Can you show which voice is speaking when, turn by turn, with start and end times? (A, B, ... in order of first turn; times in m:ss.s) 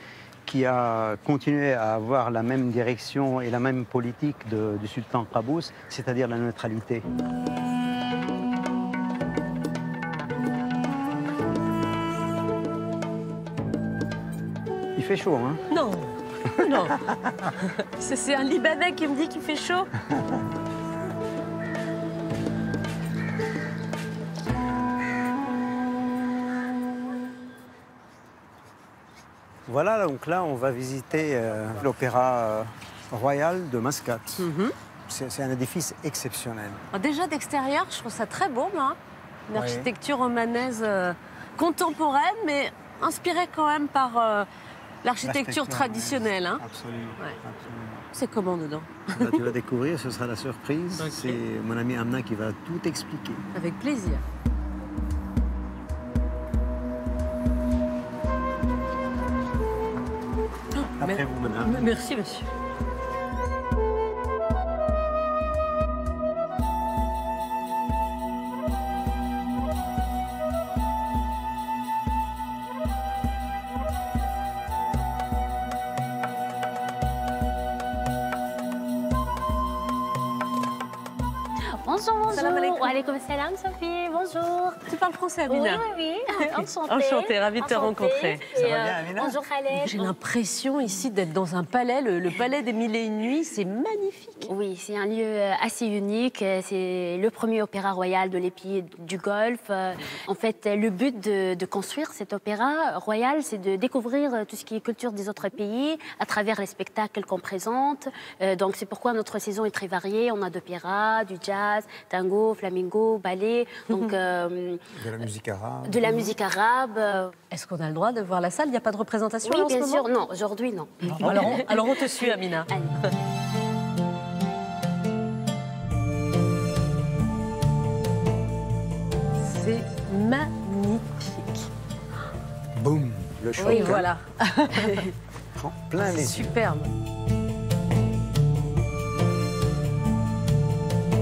0:00.4-0:07.0 A
0:15.0-0:15.6 A
0:15.7-0:16.1 B
0:16.6-0:17.0 B
0:17.6-0:19.9 B
0:29.7-0:34.5 A
0:34.4-0:34.7 B
0:35.1-0:36.8 A
0:36.9-0:39.0 B
0:39.5-0:44.5 B
0:39.5-0:39.9 A
0:45.0-0:46.6 B
0:45.2-0:48.1 A
0:48.1-0:49.4 B
0:49.2-0:53.5 A
0:51.0-0:51.4 B
0:53.5-0:54.2 B
1:00.7-1:02.4 B
1:01.0-1:01.9 A
1:21.8-1:24.8 C
1:22.3-1:22.9 B
1:24.9-1:25.8 B
1:25.5-1:30.1 C
1:26.6-1:28.7 B
1:28.5-1:29.4 A
1:29.8-1:34.5 B
1:34.4-1:54.8 C
1:54.9-1:56.3 A
1:55.8-1:57.3 C
1:57.5-2:00.0 B
1:59.4-2:03.0 C
2:01.2-2:02.7 B
2:09.4-2:11.7 B
2:12.8-2:14.1 A
2:13.6-2:15.1 B
2:15.6-2:16.5 A
2:16.0-2:16.9 B